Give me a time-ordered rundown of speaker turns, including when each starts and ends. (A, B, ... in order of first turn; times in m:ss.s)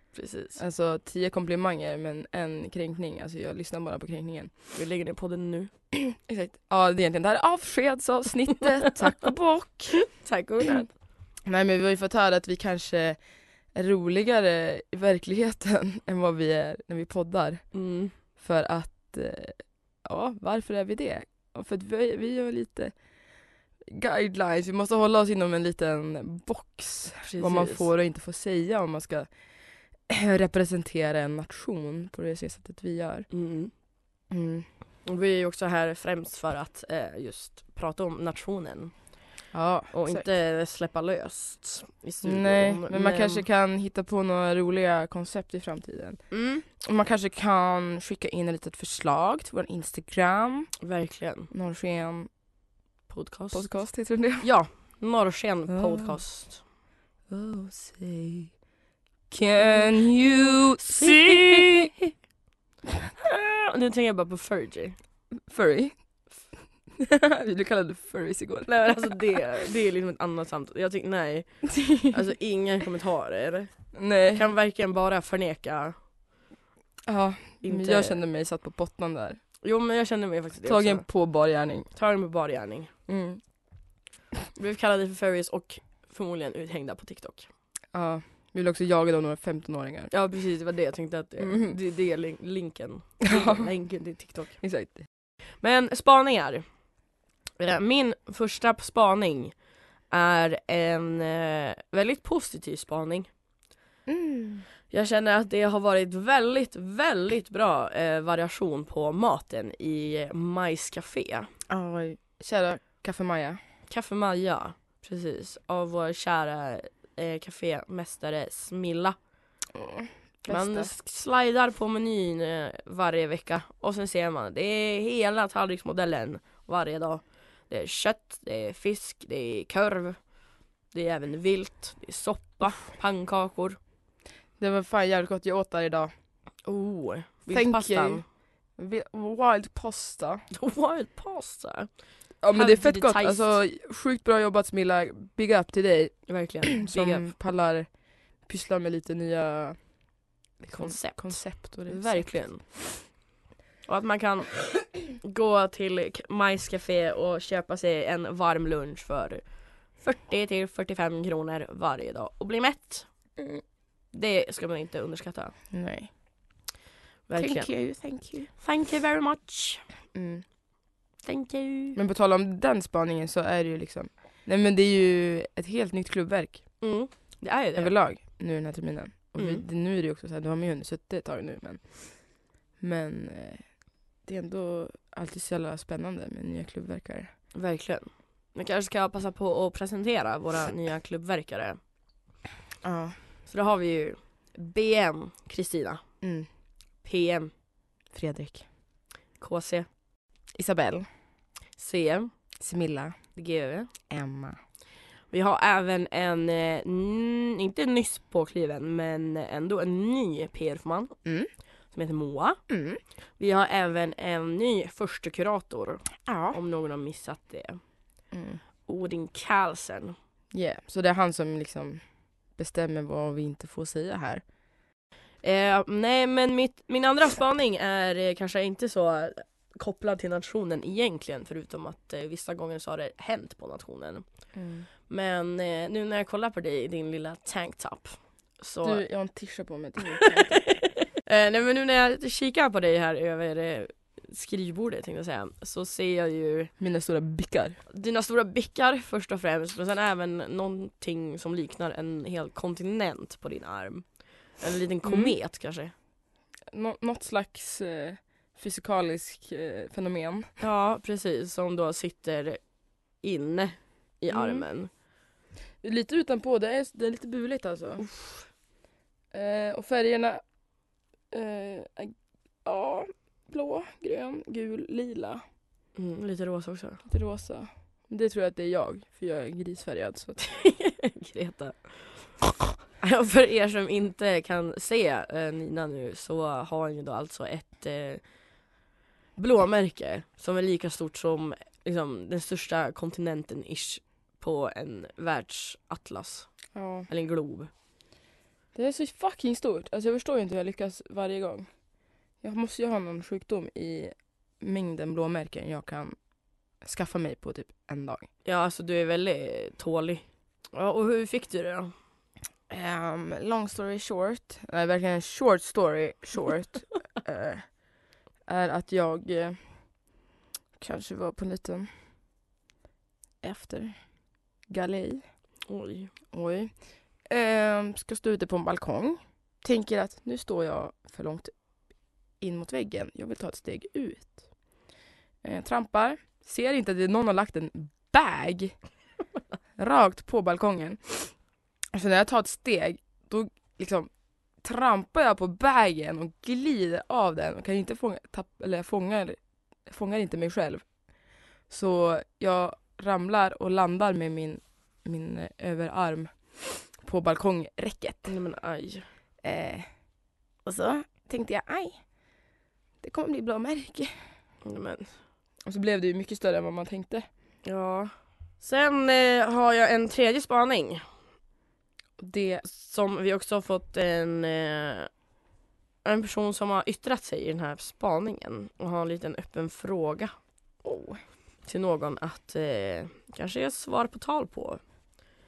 0:00.1-0:00.6 A
0:00.6-0:04.5 B
0:04.8-0:05.7 A
0:05.9-0:10.0 B
0:10.0-0:10.9 A
0:11.4-0:13.2 B
0:13.7-0:17.6 B
0:17.7-0:18.1 A
0:18.4-0:22.9 B
0:23.8-0:29.3 B
0:27.2-0:27.9 A
0:30.1-0:33.3 B
0:33.3-0:33.7 A
0:34.3-0:34.7 B
0:35.0-0:38.9 A
0:39.5-0:40.3 B
0:39.9-0:43.5 A
0:42.2-0:50.7 B
0:46.3-0:46.6 A
0:50.8-0:51.5 A
0:51.5-0:52.3 B
0:53.1-0:53.7 A
0:53.5-0:54.5 B
0:54.4-0:56.6 A
0:55.7-0:56.2 B
0:57.3-0:58.5 B
0:59.3-1:02.0 B
1:00.8-1:01.9 A
1:03.2-1:05.0 A
1:05.5-1:06.0 B
1:07.0-1:09.4 B
1:08.7-1:13.7 A
1:11.8-1:12.1 B
1:13.9-1:14.5 B
1:14.3-1:16.0 A
1:17.1-1:19.4 B
1:17.6-1:18.2 A
1:19.6-1:21.0 A
1:20.6-1:21.9 B
1:21.9-1:22.9 A
1:23.1-1:23.4 B
1:24.6-1:27.5 A
1:27.9-1:30.1 B
1:30.1-1:34.6 A
1:31.4-1:31.8 B
1:33.2-1:33.7 B
1:34.6-1:35.1 B
1:35.6-1:36.6 A
1:37.6-1:39.6 A
1:40.1-1:43.3 A
1:44.1-1:44.7 B
1:44.9-1:51.5 A
1:51.7-1:53.6 B
1:53.9-1:59.2 A
1:59.7-2:00.9 B
2:00.5-2:10.2 A
2:10.9-2:13.8 A
2:14.6-2:16.1 B
2:16.6-2:18.2 A
2:17.5-2:18.2 B
2:18.8-2:20.4 B
2:20.5-2:21.9 A
2:22.4-2:29.8 B
2:22.5-2:23.6 A
2:26.3-2:27.3 A
2:30.6-2:32.7 B
2:30.7-2:33.1 A
2:33.9-2:39.4 A
2:40.0-2:43.1 A
2:44.1-2:45.6 A
2:45.7-2:46.1 B
2:47.3-2:47.7 A
2:47.4-2:48.5 B
2:48.6-2:49.8 A
2:50.1-2:50.4 B
2:51.2-2:52.0 A
2:52.0-2:56.6 B
2:56.8-2:58.0 A
2:57.8-3:03.7 B
2:59.4-2:59.6 A
3:04.2-3:07.3 B
3:07.5-3:11.8 A
3:12.8-3:13.2 B
3:13.5-3:16.0 A
3:16.2-3:16.5 B
3:17.0-3:17.5 A
3:18.1-3:18.6 B
3:19.4-3:19.9 A
3:20.6-3:21.1 B
3:21.8-3:22.3 A
3:22.6-3:23.2 B
3:23.4-3:23.9 A
3:24.1-3:24.6 B
3:25.3-3:31.1 A
3:31.2-3:31.5 B
3:31.9-3:32.6 A
3:32.7-3:33.0 B
3:33.4-3:37.8 A
3:36.3-3:36.6 B
3:38.3-3:38.6 B
3:38.8-3:40.2 A
3:40.5-3:42.0 B
3:42.6-3:44.4 B
3:45.4-3:54.2 A
3:54.5-3:54.9 B
3:55.1-3:59.0 A
3:58.8-4:00.7 B
4:00.2-4:06.7 A
4:06.8-4:07.8 B
4:07.9-4:14.1 A
4:14.6-4:15.9 A
4:15.0-4:15.4 B
4:16.7-4:20.5 B
4:20.6-4:22.6 A
4:23.2-4:24.9 A
4:24.3-4:24.6 B
4:25.8-4:28.1 B
4:28.0-4:28.4 A
4:29.3-4:30.4 B
4:31.3-4:35.4 B
4:36.0-4:37.0 A
4:37.1-4:40.4 B
4:40.4-4:42.2 A
4:43.0-4:48.2 A
4:49.4-4:56.5 A
4:56.7-4:57.1 B
4:57.1-4:57.7 A
4:58.8-5:01.7 B
5:02.4-5:06.2 B
5:06.8-5:08.3 B
5:08.4-5:11.9 A
5:12.7-5:17.8 B
5:18.4-5:19.6 B
5:20.8-5:21.9 B
5:23.4-5:24.0 B
5:24.7-5:25.2 B
5:25.7-5:26.1 A
5:26.3-5:26.8 B
5:27.3-5:31.5 B
5:32.4-5:34.4 B
5:35.4-5:38.8 B
5:39.8-5:41.4 B
5:41.9-5:44.1 B
5:44.6-5:50.8 B
5:51.7-5:58.4 B
5:58.3-5:59.1 A
5:59.4-5:59.9 B
6:00.6-6:02.0 B
6:03.0-6:04.2 B
6:04.6-6:05.1 A
6:05.6-6:07.3 B
6:07.6-6:11.0 A
6:12.2-6:12.6 B
6:12.6-6:15.1 A
6:16.0-6:20.3 A
6:20.8-6:21.2 B
6:21.6-6:24.8 A